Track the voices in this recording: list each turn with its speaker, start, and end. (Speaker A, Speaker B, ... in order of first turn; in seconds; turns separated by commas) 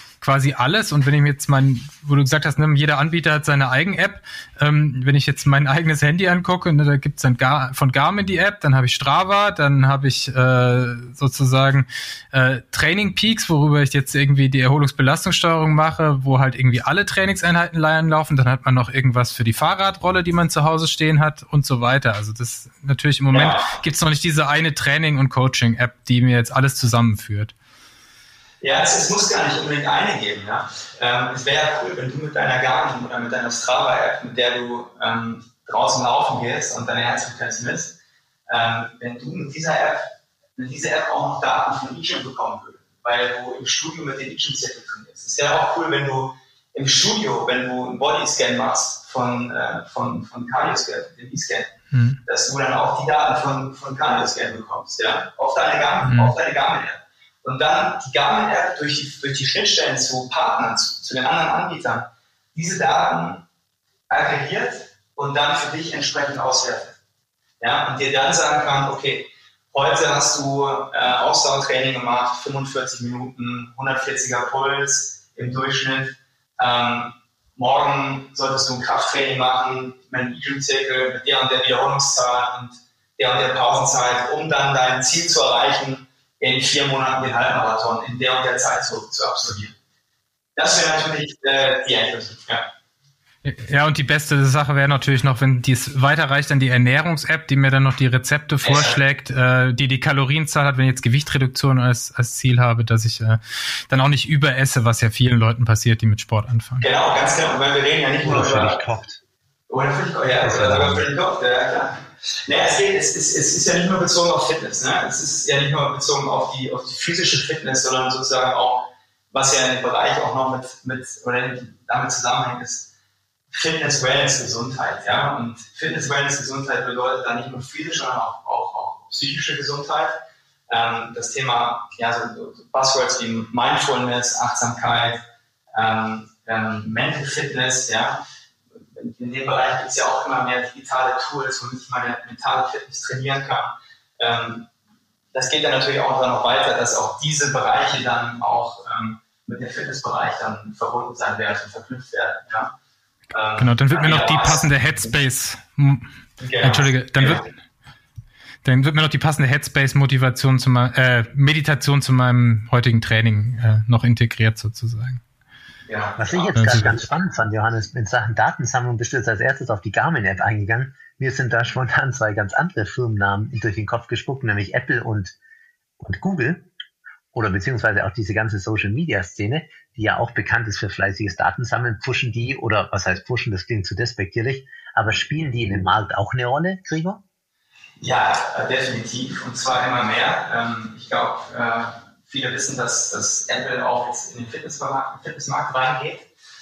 Speaker A: 0.2-27.5, Speaker B: 23.3-23.7, Speaker B: 28.6-38.0, Speaker B: 38.5-51.7, Speaker A: 51.9-52.2, Speaker B: 52.2-63.4, Speaker A: 56.0-56.3, Speaker B: 64.1-67.0, Speaker B: 67.6-89.7, Speaker B: 90.5-92.7, Speaker A: 93.4-106.8, Speaker B: 98.6-99.0, Speaker B: 106.8-108.8, Speaker C: 108.2-109.2, Speaker B: 109.7-122.9, Speaker C: 110.4-111.0, Speaker B: 123.5-130.2, Speaker B: 130.7-135.2, Speaker B: 135.7-138.2, Speaker B: 138.8-144.7, Speaker B: 145.3-152.7, Speaker B: 153.3-155.2, Speaker A: 153.6-157.5, Speaker B: 156.4-157.5, Speaker A: 158.6-165.2, Speaker B: 165.9-166.6, Speaker C: 166.2-175.3, Speaker A: 166.5-166.9, Speaker C: 176.0-176.7, Speaker C: 177.3-187.2, Speaker B: 188.0-196.3